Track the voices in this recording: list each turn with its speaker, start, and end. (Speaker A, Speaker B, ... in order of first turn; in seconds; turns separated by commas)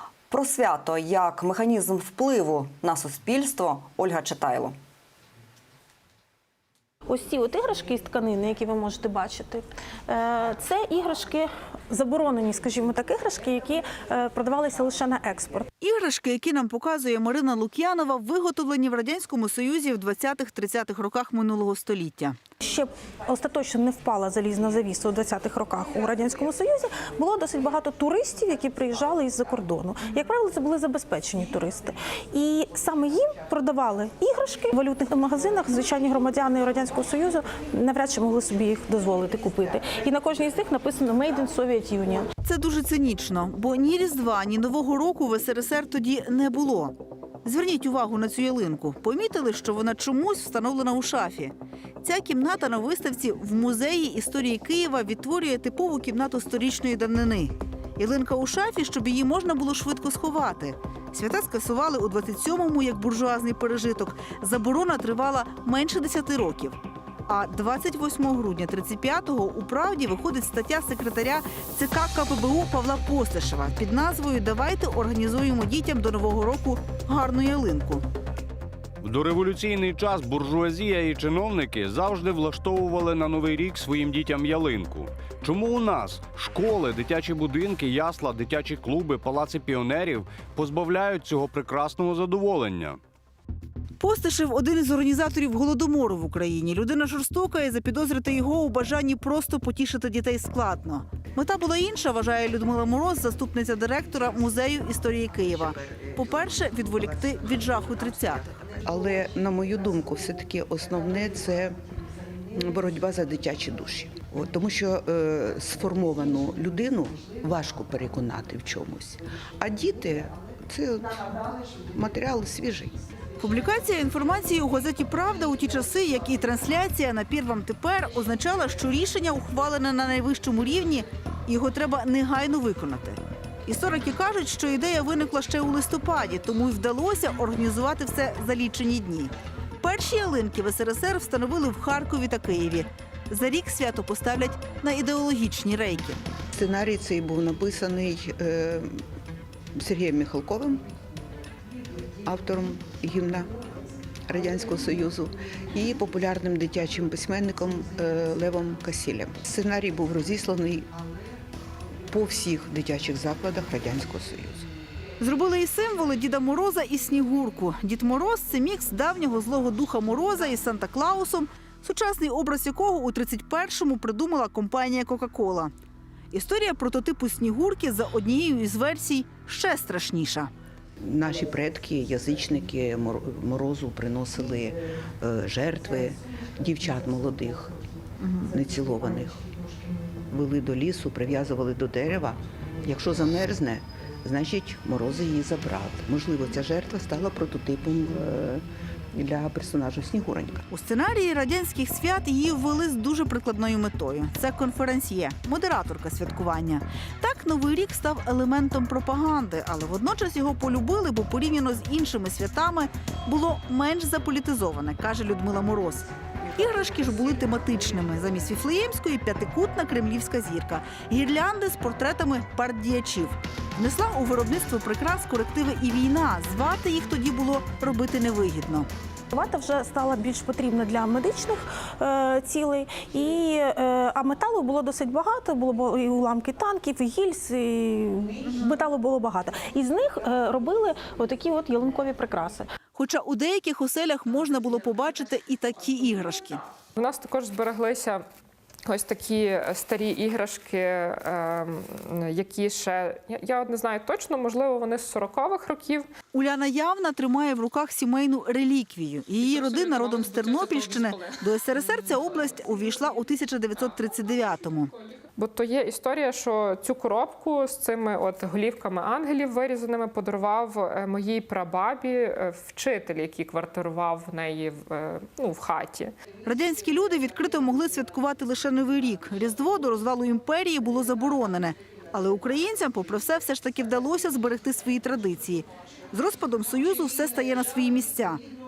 Speaker A: 0.3-4.8, Speaker B: 7.1-15.7, Speaker C: 15.8-22.4, Speaker B: 22.6-42.3, Speaker C: 42.5-78.0, Speaker D: 79.1-93.0, Speaker C: 94.0-108.5, Speaker E: 108.8-111.7, Speaker E: 112.5-122.9, Speaker C: 123.4-146.2, Speaker E: 146.5-149.0, Speaker E: 149.8-150.8, Speaker E: 152.2-153.5, Speaker E: 154.3-160.9, Speaker E: 162.1-164.7, Speaker C: 165.2-175.7, Speaker C: 176.3-180.5, Speaker E: 181.0-187.7, Speaker C: 188.2-188.5, Speaker E: 188.5-189.4, Speaker E: 190.3-200.7, Speaker C: 200.7-228.9, Speaker B: 229.3-242.7, Speaker C: 242.9-246.6, Speaker F: 247.0-248.2, Speaker F: 248.9-256.1, Speaker C: 256.3-264.9, Speaker F: 265.4-276.1, Speaker C: 276.4-288.4